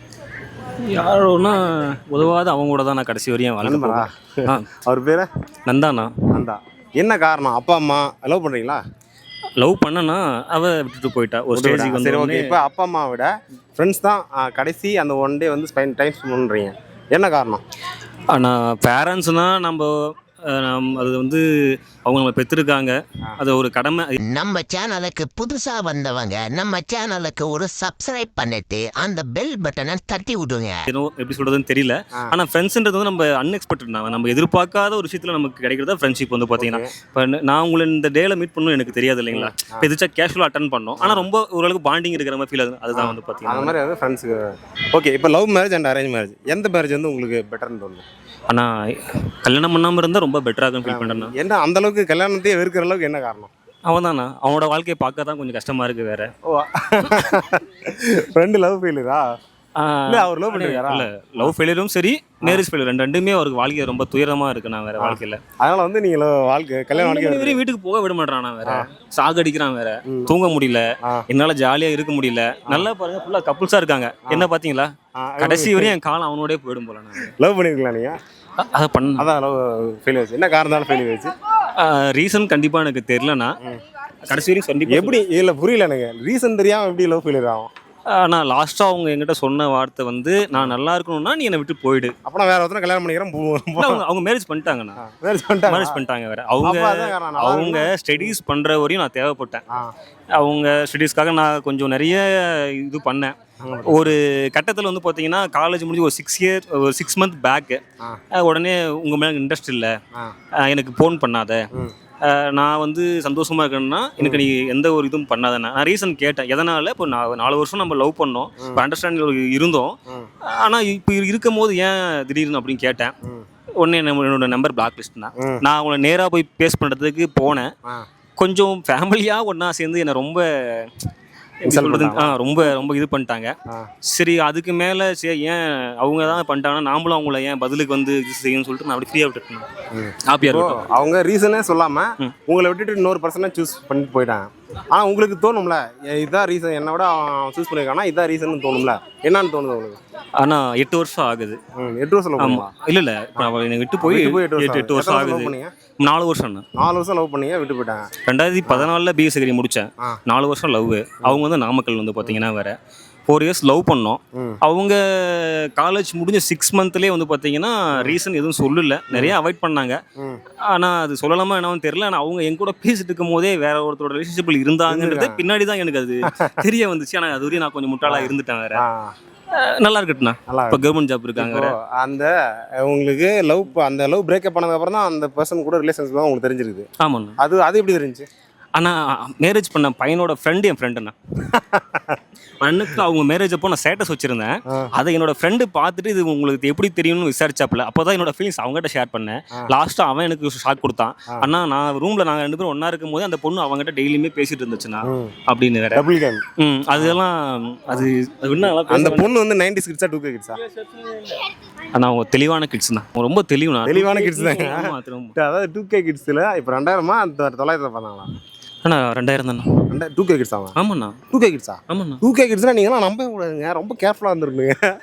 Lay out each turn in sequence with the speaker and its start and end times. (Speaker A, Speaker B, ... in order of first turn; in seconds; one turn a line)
Speaker A: 0.9-4.7
Speaker B: 3.6-5.3
Speaker A: 5.7-6.2
Speaker B: 6.3-8.8
Speaker A: 9.6-12.4
Speaker B: 11.5-17.6
Speaker A: 18.3-21.4
Speaker A: 21.9-24.2
Speaker C: 24.2-30.9
Speaker A: 30.9-43.8
Speaker B: 36.6-36.9
Speaker B: 39.3-39.9
Speaker B: 41.0-41.3
Speaker B: 42.9-48.0
Speaker A: 48.5-51.3
Speaker B: 50.9-53.5
Speaker A: 53.9-56.3
Speaker B: 56.5-59.2
Speaker A: 59.8-65.4
Speaker B: 60.1-61.5
Speaker B: 65.0-67.6
Speaker A: 67.0-74.9
Speaker B: 70.1-70.3
Speaker B: 75.2-75.9
Speaker A: 75.4-77.3
Speaker B: 77.4-78.2
Speaker A: 78.6-79.3
Speaker B: 79.2-81.3
Speaker A: 81.8-83.5
Speaker A: 84.3-85.2
Speaker B: 84.9-87.7
Speaker A: 88.1-92.1
Speaker B: 92.2-94.0
Speaker A: 93.8-95.0
Speaker B: 95.0-96.0
Speaker A: 95.7-99.6
Speaker B: 96.6-98.3
Speaker A: 100.4-103.3
Speaker B: 103.6-104.1
Speaker A: 103.9-107.8
Speaker A: 108.3-110.0
Speaker A: 110.7-111.6
Speaker A: 112.3-123.1
Speaker A: 123.8-127.7
Speaker B: 125.4-125.6
Speaker A: 128.4-131.1
Speaker B: 131.7-132.4
Speaker A: 131.7-133.5
Speaker A: 134.1-139.7
Speaker B: 139.9-150.0
Speaker A: 140.3-140.8
Speaker A: 150.4-151.6
Speaker B: 151.8-152.7
Speaker A: 152.4-156.7
Speaker B: 154.0-155.7
Speaker B: 156.8-158.1
Speaker A: 158.3-162.8
Speaker A: 163.3-170.0
Speaker A: 170.7-178.8
Speaker B: 174.9-175.4
Speaker B: 176.3-176.6
Speaker B: 178.1-179.1
Speaker A: 179.6-181.7
Speaker B: 180.5-180.8
Speaker B: 181.4-186.9
Speaker A: 187.0-187.4
Speaker B: 187.4-188.3
Speaker A: 188.8-191.2
Speaker B: 191.5-192.2
Speaker A: 192.6-206.0
Speaker B: 205.0-205.3
Speaker B: 205.9-206.4
Speaker A: 206.6-209.3
Speaker B: 208.9-210.6
Speaker A: 211.9-215.3
Speaker B: 213.9-218.3
Speaker A: 218.8-219.7
Speaker B: 219.9-220.7
Speaker A: 220.8-221.2
Speaker B: 221.3-224.8
Speaker A: 221.9-222.2